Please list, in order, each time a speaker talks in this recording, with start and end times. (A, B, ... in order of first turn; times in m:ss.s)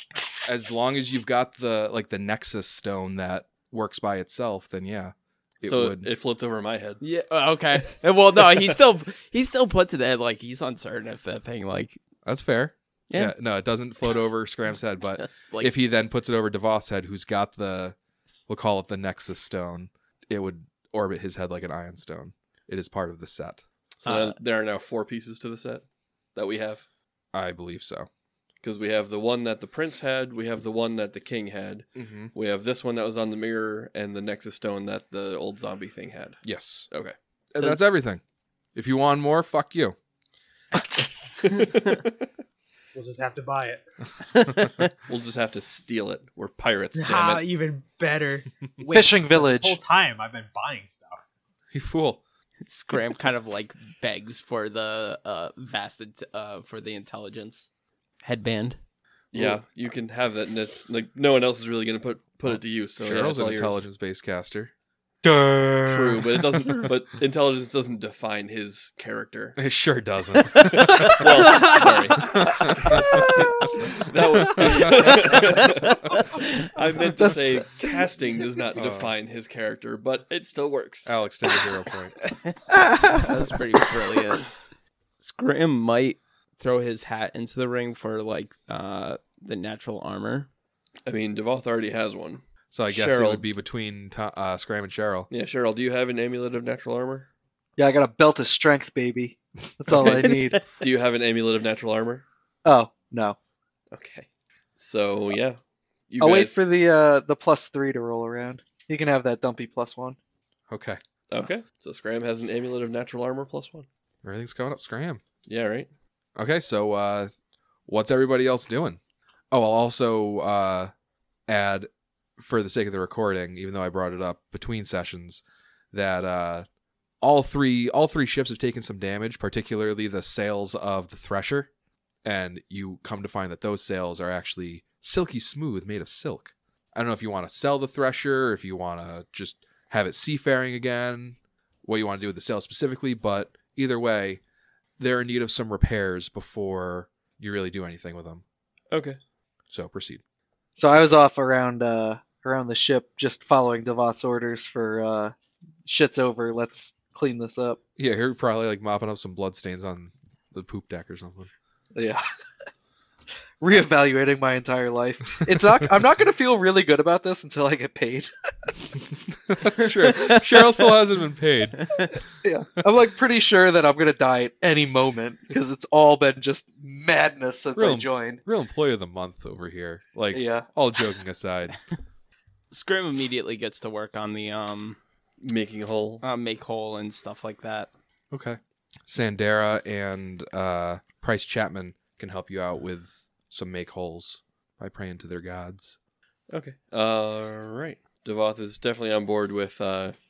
0:00.4-0:06.1 A
0:05.6-0:07.0 B
0:07.0-0:12.0 C
0:12.2-0:18.0 A
0:13.1-0:13.4 C
0:15.2-0:15.7 C
0:18.5-0:23.6 A
0:24.0-0:26.9 B
0:24.0-0:24.4 C
0:27.3-0:28.1 A
0:28.6-0:37.2 B
0:32.0-0:32.3 A
0:36.4-0:36.9 A
0:37.5-0:38.2 A
0:38.8-0:40.0 A
0:41.4-0:42.3 B
0:43.0-0:43.8 D
0:44.3-0:44.9 C
0:45.1-0:47.4 B
0:47.0-0:51.2 D
0:48.9-0:49.8 E
0:51.7-0:52.2 A
0:52.7-0:57.7 C
0:58.2-0:58.8 C
0:59.3-1:03.8 B
1:02.5-1:04.7 A
1:05.2-1:06.9 E
1:05.8-1:09.6 B
1:09.6-1:11.7 A
1:10.5-1:21.1 B
1:12.2-1:15.2 A
1:16.3-1:16.7 C
1:17.2-1:18.0 E
1:18.8-1:19.1 A
1:21.0-1:22.2 A
1:22.4-1:24.5 C
1:25.2-1:30.5 C
1:31.1-1:33.5 B
1:32.7-1:35.3 A
1:35.3-1:37.3 B
1:37.8-1:40.6 E
1:39.9-1:42.2 B
1:42.6-1:43.4 E
1:43.9-1:45.6 B
1:46.1-1:46.6 B
1:46.2-1:50.2 E
1:50.7-1:51.0 A
1:51.3-1:53.9 B
1:54.2-1:55.2 A
1:55.5-1:55.9 B
1:56.4-1:57.3 A
1:57.9-1:59.0 A
1:59.5-2:00.9 A
2:01.5-2:06.7 A
2:07.2-2:11.7 A
2:12.2-2:24.4 A
2:25.0-2:28.4 A
2:28.9-2:29.2 B
2:29.7-2:30.2 A
2:30.8-2:35.3 E
2:35.8-2:37.8 E
2:38.0-2:41.5 A
2:42.0-2:42.2 E
2:43.6-2:48.3 E
2:49.5-2:51.9 A
2:49.8-2:50.6 C
2:51.9-2:52.2 C
2:52.4-2:58.4 E
2:57.8-3:01.8 A
3:00.3-3:00.7 E
3:02.7-3:05.0 C
3:05.4-3:06.2 B
3:06.2-3:07.9 C
3:08.3-3:16.0 A
3:16.5-3:20.2 B